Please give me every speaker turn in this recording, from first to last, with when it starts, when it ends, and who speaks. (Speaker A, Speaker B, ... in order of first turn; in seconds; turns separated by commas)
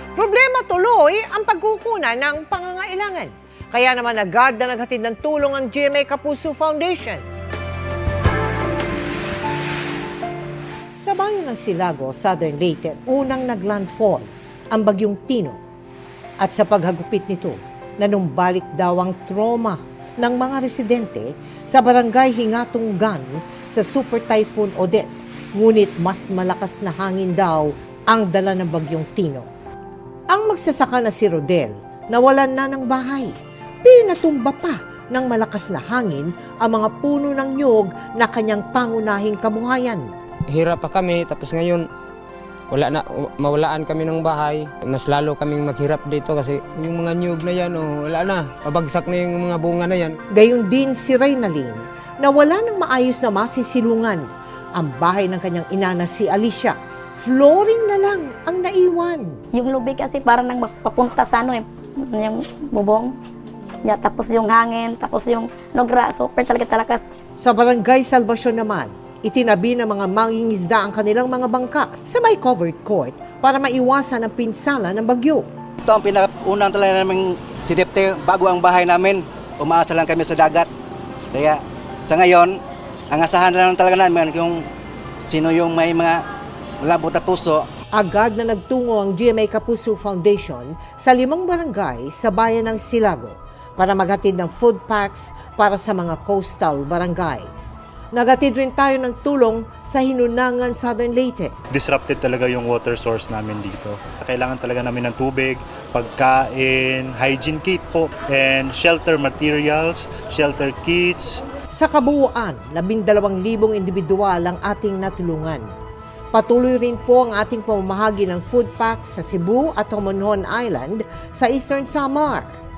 Speaker A: 0.2-7.2, Speaker A: 11.0-15.6, Speaker A: 16.4-29.5, Speaker A: 30.3-40.1, Speaker B: 40.5-41.9, Speaker B: 42.7-50.2, Speaker A: 50.3-59.4, Speaker C: 59.5-63.2, Speaker C: 63.8-67.1, Speaker A: 67.4-75.5, Speaker D: 75.8-80.7, Speaker D: 81.3-82.6, Speaker D: 83.1-84.7, Speaker D: 85.3-86.2, Speaker D: 86.8-87.7, Speaker A: 87.9-101.5, Speaker E: 101.7-111.4, Speaker A: 111.7-115.7, Speaker A: 116.3-122.5